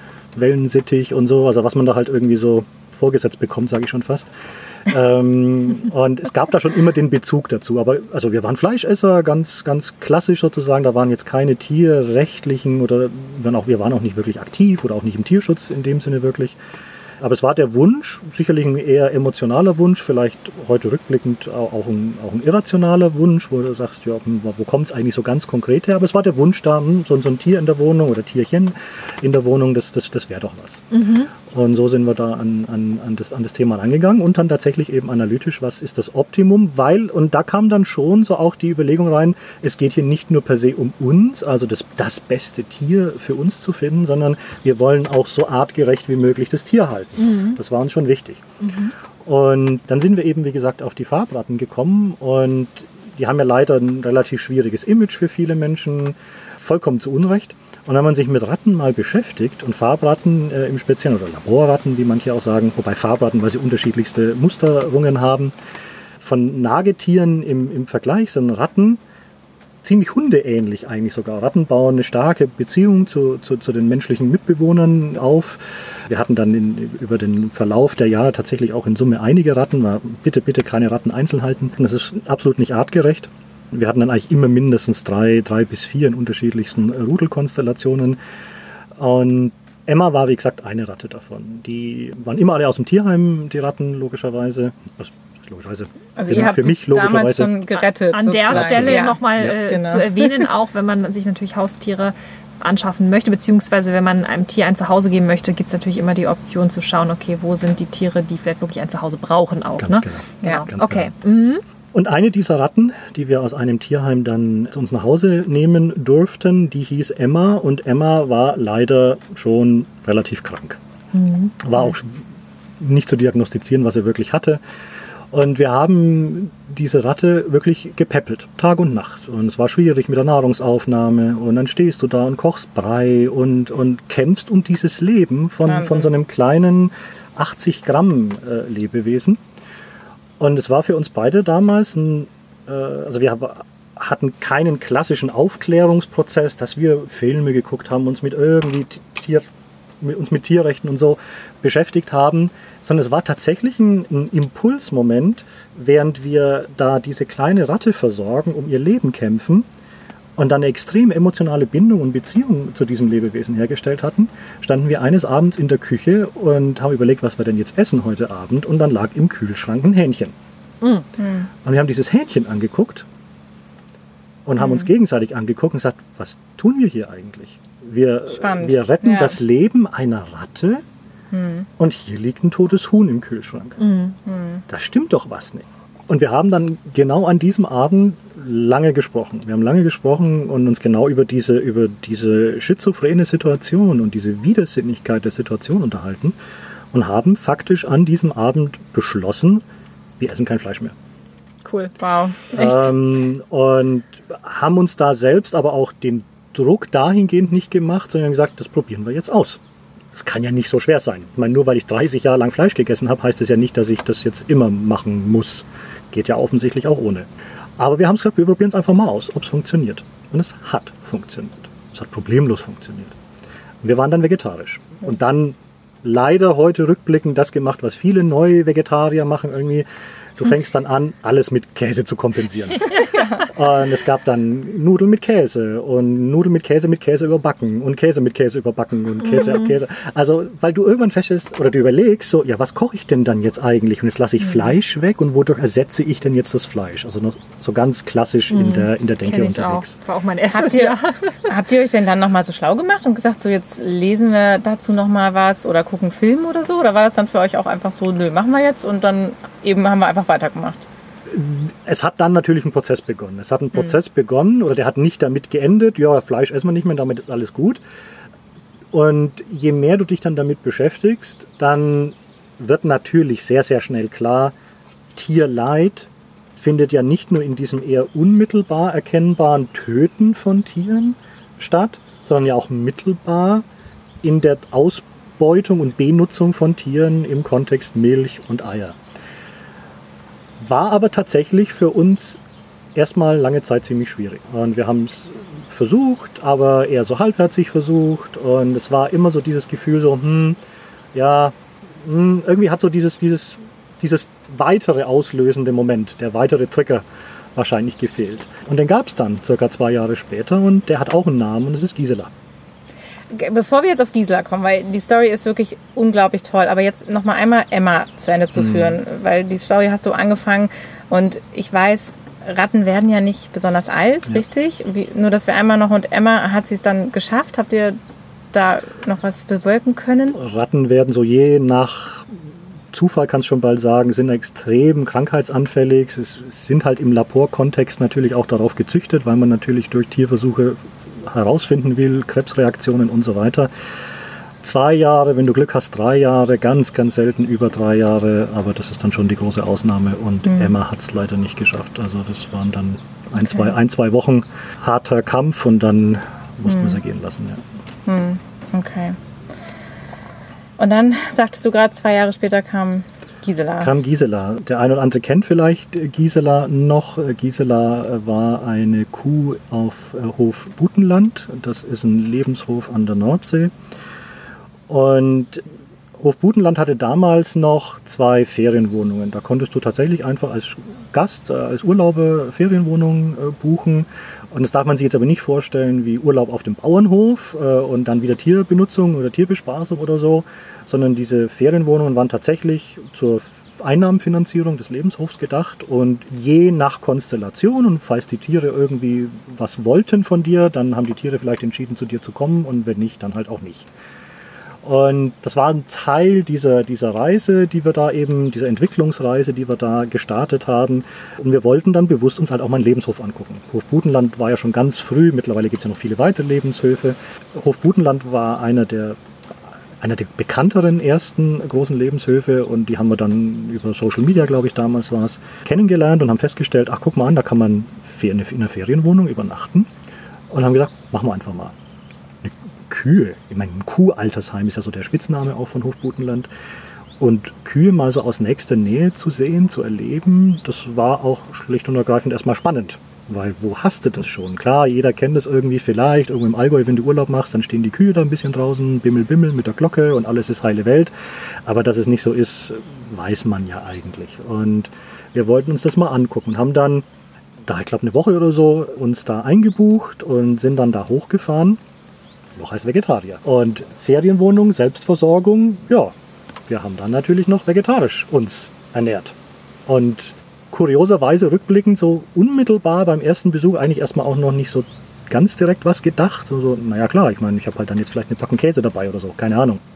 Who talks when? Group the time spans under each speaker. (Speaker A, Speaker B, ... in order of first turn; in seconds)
Speaker A: 0.3-4.3, 4.8-16.6, 17.2-48.4, 49.2-65.5, 66.2-69.0, 69.8-88.2, 89.0-97.5, 98.5-99.6, 109.8-111.1, 111.9-120.8, 121.6-122.2, 122.8-124.6, 125.3-139.4, 140.4-149.5, 150.0-159.7, 160.4-170.3, 171.6-173.1, 174.4-180.8, 181.8-183.8, 184.7-196.3, 196.9-199.6, 200.2-200.9, 202.5-209.6, 210.1-217.3, 217.8-223.2, 223.8-229.8, 230.4-249.9, 261.3-267.8, 268.9-274.5, 275.1-283.6, 284.2-289.0, 290.6-292.4, 292.9-300.6, 301.1-307.0, 307.6-312.3, 318.6-318.9, 330.3-343.7, 344.6-357.6, 363.8-373.7, 374.9-375.6, 376.2-403.9, 404.8-419.2, 420.0-429.9, 430.5-431.7, 432.4-436.5, 437.2-451.1, 451.6-457.0, 457.6-461.8, 462.6-466.1, 466.7-469.3, 469.9-479.8
Speaker B: 30.9-31.3, 47.2-47.6, 48.6-48.9, 98.1-111.6, 121.1-121.9, 183.8-184.2, 201.6-201.9, 248.5-251.3
Speaker C: 96.2-100.5, 135.7-136.1, 171.2-171.5, 178.3-179.4, 181.3-181.7, 184.2-184.6, 202.0-202.9, 250.5-260.9, 313.3-328.0, 328.5-330.4, 350.4-350.7, 356.7-356.9, 358.1-359.2, 360.8-363.9